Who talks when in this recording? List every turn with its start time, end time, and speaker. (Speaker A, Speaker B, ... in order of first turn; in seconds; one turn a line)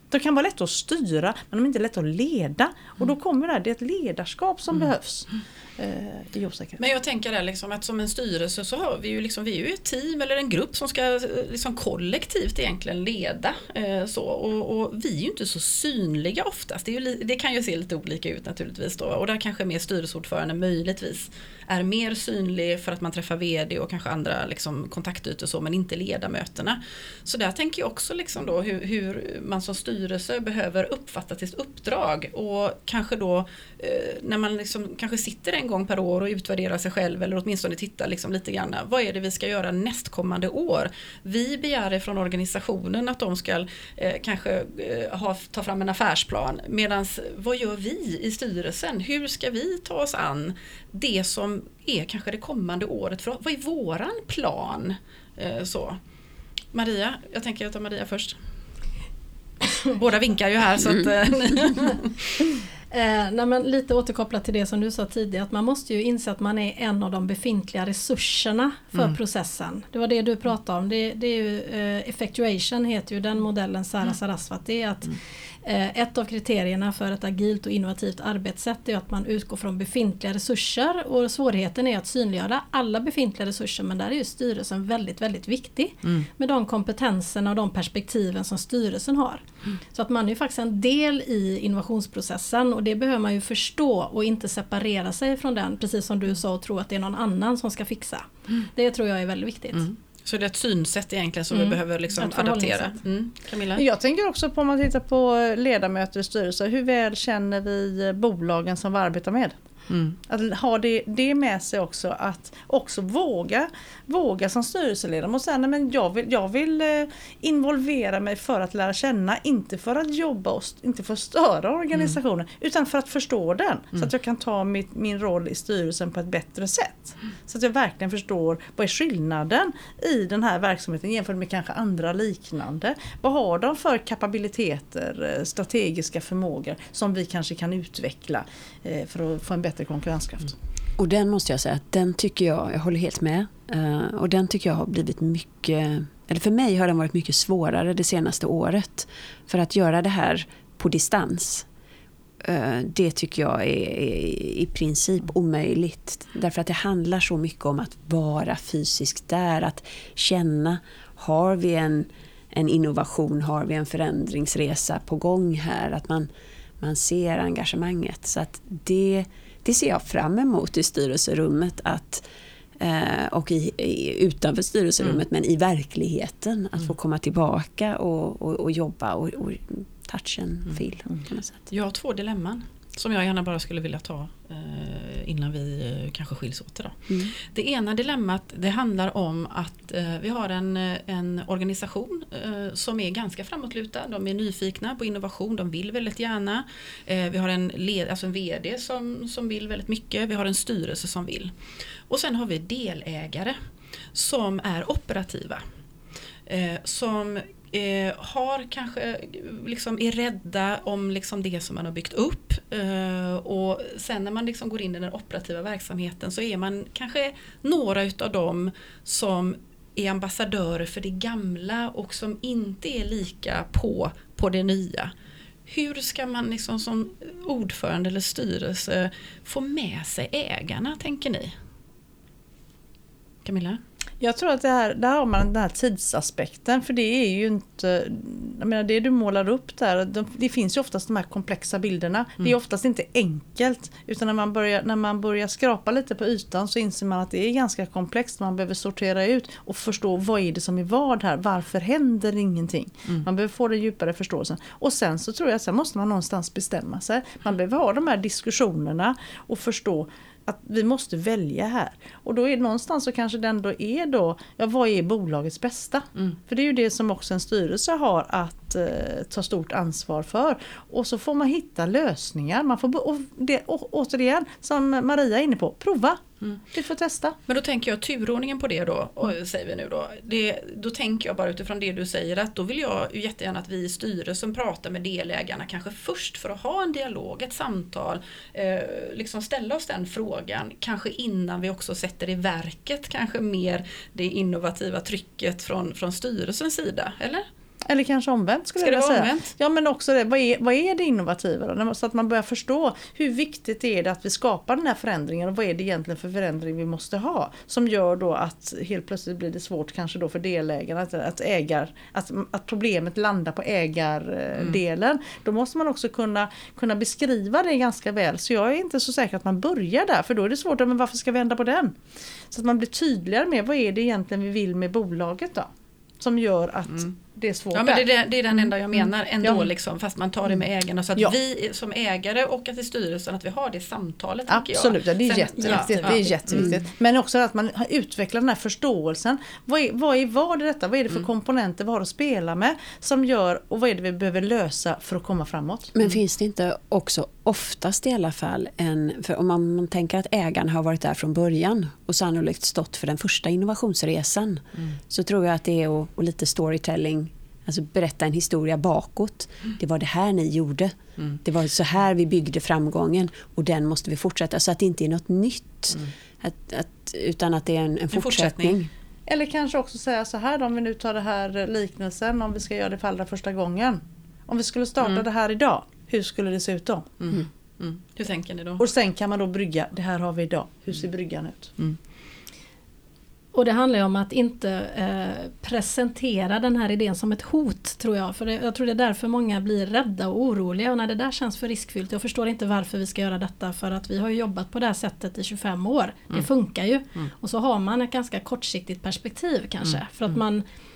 Speaker A: 0.1-6.8
Speaker B: 6.8-56.0
Speaker B: 56.7-58.4
Speaker B: 59.9-62.4
Speaker C: 62.9-99.9
Speaker B: 99.8-103.8
Speaker C: 101.6-102.9
Speaker A: 103.8-109.6
Speaker B: 109.9-110.2
Speaker A: 110.3-140.5
Speaker D: 141.0-151.7
Speaker D: 152.4-166.3
Speaker D: 166.8-172.2
Speaker D: 172.8-181.7
Speaker B: 181.7-201.5
Speaker B: 202.1-203.6
Speaker B: 204.1-205.6
Speaker B: 206.5-225.1
Speaker B: 225.7-231.5
Speaker B: 233.4-233.8
Speaker A: 234.2-277.4
Speaker B: 277.5-297.5
Speaker A: 297.9-322.0
Speaker B: 298.8-299.5
Speaker A: 322.5-325.7
Speaker A: 326.2-328.1
Speaker B: 327.7-336.8
Speaker A: 329.4-329.7
Speaker A: 334.5-345.9
Speaker D: 345.9-368.9
Speaker B: 368.1-368.8
Speaker A: 369.3-377.1
Speaker B: 377.2-378.8
Speaker A: 378.8-381.7
Speaker C: 383.5-400.6